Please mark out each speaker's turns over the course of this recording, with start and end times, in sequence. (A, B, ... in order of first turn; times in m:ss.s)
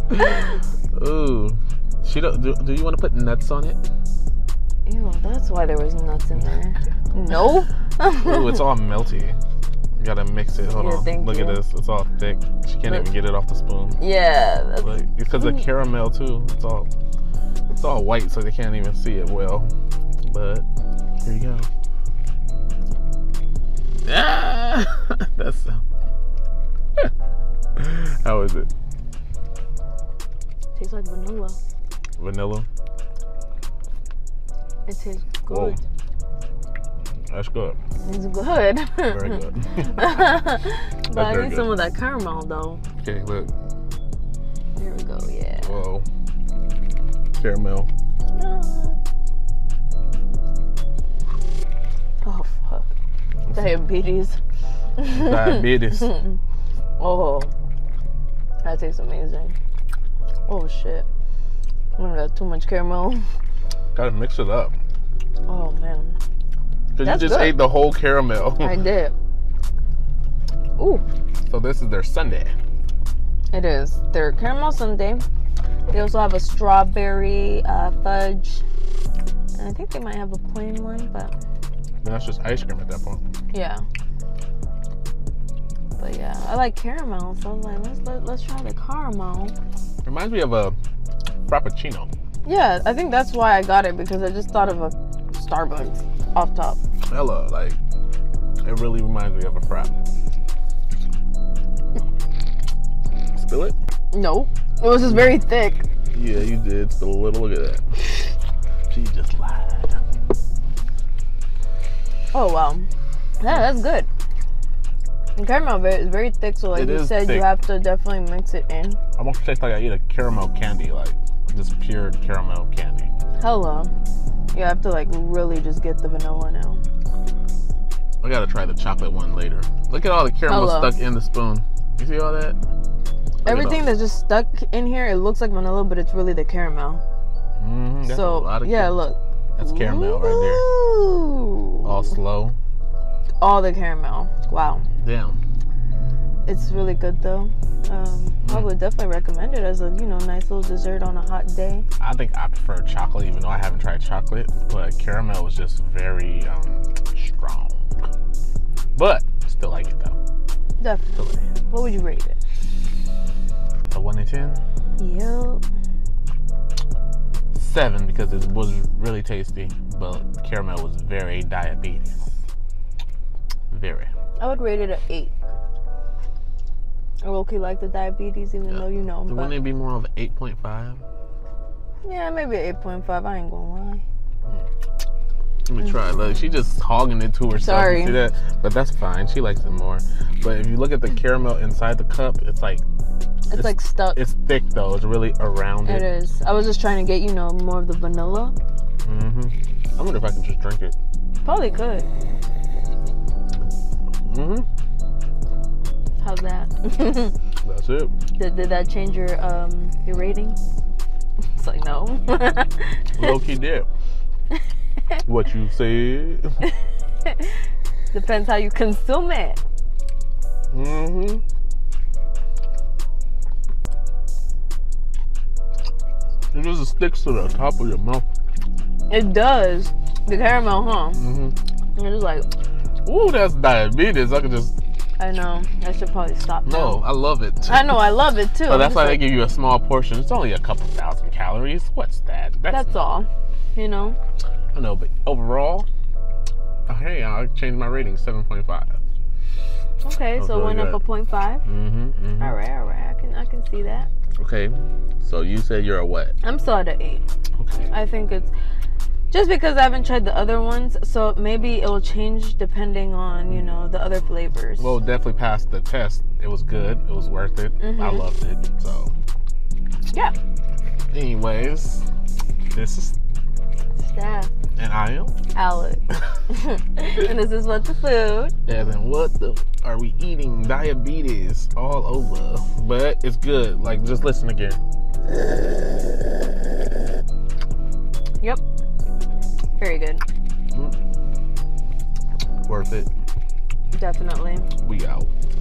0:00.9-0:03.8 A
0:04.9-0:08.6 B
0:08.2-0:09.4 A
0:10.0-0:14.0 A
0:10.7-0:11.6 B
0:14.0-0:14.9 B
0:14.8-0:16.9 A
0:17.8-0:19.7 A
0:20.2-0:20.6 A
0:21.2-0:21.7 A
0:24.0-0:25.8 A
0:27.8-0:28.7 A
0:30.8-0:31.6 B
0:32.2-0:32.7 A
0:34.9-0:35.8 B
0:35.5-0:35.8 A
0:37.3-0:37.8 A
0:38.0-0:42.8 B
0:39.1-0:40.3 A
0:41.1-0:41.7 A
0:43.0-0:43.5 A
0:44.8-0:45.8 B
0:45.5-0:46.1 A
0:47.3-0:47.9 A
0:48.4-0:49.0 B
0:52.2-0:52.9 B
0:53.5-0:54.4 B
0:55.0-0:56.4 B
0:55.0-0:56.2 A
0:57.0-0:57.5 B
0:58.6-0:59.6 B
1:00.5-1:01.1 B
1:02.0-1:03.3 B
1:04.0-1:04.8 A
1:05.5-1:06.2 B
1:07.0-1:08.8 A
1:07.0-1:07.6 B
1:08.6-1:09.2 B
1:10.8-1:11.0 B
1:11.5-1:12.5 A
1:13.5-1:15.2 B
1:15.9-1:18.6 B
1:19.5-1:21.3 B
1:22.0-1:23.3 A
1:23.5-1:23.8 B
1:26.0-1:29.6 B
1:30.0-1:30.8 A
1:31.5-1:32.1 A
1:32.4-1:36.8 B
1:37.1-1:37.8 A
1:38.6-1:39.9 A
1:43.4-1:43.8 A
1:44.1-1:45.9 B
1:46.1-1:48.3 A
1:48.9-1:50.0 A
1:52.3-1:52.9 B
1:53.4-1:54.1 B
1:55.4-1:59.0 B
1:56.7-1:57.5 A
1:59.2-2:03.1 A
2:03.4-2:03.9 B
2:04.5-2:06.8 B
2:08.2-2:12.6 A
2:10.5-2:11.0 B
2:13.4-2:13.9 A
2:13.4-2:17.0 B
2:17.6-2:19.0 A
2:18.1-2:22.0 B
2:19.6-2:20.7 A
2:21.8-2:22.6 A
2:23.4-2:24.9 B
2:25.0-2:25.4 A
2:26.4-2:31.8 B
2:28.4-2:28.7 A
2:32.0-2:38.1 A
2:39.0-2:40.2 A
2:40.8-2:42.4 B
2:41.2-2:41.5 A
2:43.9-2:44.6 A
2:45.0-2:45.6 B
2:47.5-2:52.4 A
2:53.7-2:54.1 A
2:54.4-2:55.3 B
2:57.2-2:59.6 B
2:58.7-3:01.0 A
3:02.0-3:04.0 B
3:05.7-3:12.8 A
3:07.6-3:08.2 B
3:13.5-3:14.2 B
3:13.5-3:16.1 A
3:15.8-3:18.6 B
3:19.0-3:21.0 A
3:21.4-3:22.1 B
3:24.2-3:24.7 A
3:26.2-3:27.3 B
3:27.6-3:28.1 A
3:28.4-3:30.6 B
3:31.6-3:33.4 B
3:33.1-3:33.9 A
3:35.2-3:36.6 A
3:38.1-3:39.6 B
3:40.7-3:41.4 A
3:46.5-3:48.3 A
3:49.1-3:51.2 B
3:51.1-3:51.6 A
3:52.0-3:52.5 B
3:53.1-3:54.8 A
3:55.2-3:57.0 B
3:56.7-3:58.0 A
3:57.7-3:59.3 B
3:58.6-4:03.2 A
4:02.7-4:04.2 B
4:04.7-4:05.9 A
4:06.9-4:09.0 A
4:10.0-4:11.6 B
4:10.4-4:11.0 A
4:11.6-4:12.5 A
4:12.4-4:14.1 B
4:14.4-4:16.4 A
4:16.4-4:17.2 B
4:17.6-4:17.9 A
4:17.9-4:18.5 B
4:19.3-4:25.0 B
4:24.8-4:29.1 A
4:27.8-4:28.2 B
4:30.1-4:30.4 B
4:31.1-4:32.1 A
4:32.7-4:33.2 A
4:34.0-4:34.5 B
4:34.8-4:35.3 A
4:35.5-4:38.5 B
4:38.7-4:44.8 A
4:49.8-4:50.2 B
4:50.7-4:51.0 A
4:52.7-4:53.1 A
4:53.9-4:54.7 B
4:54.8-4:55.3 A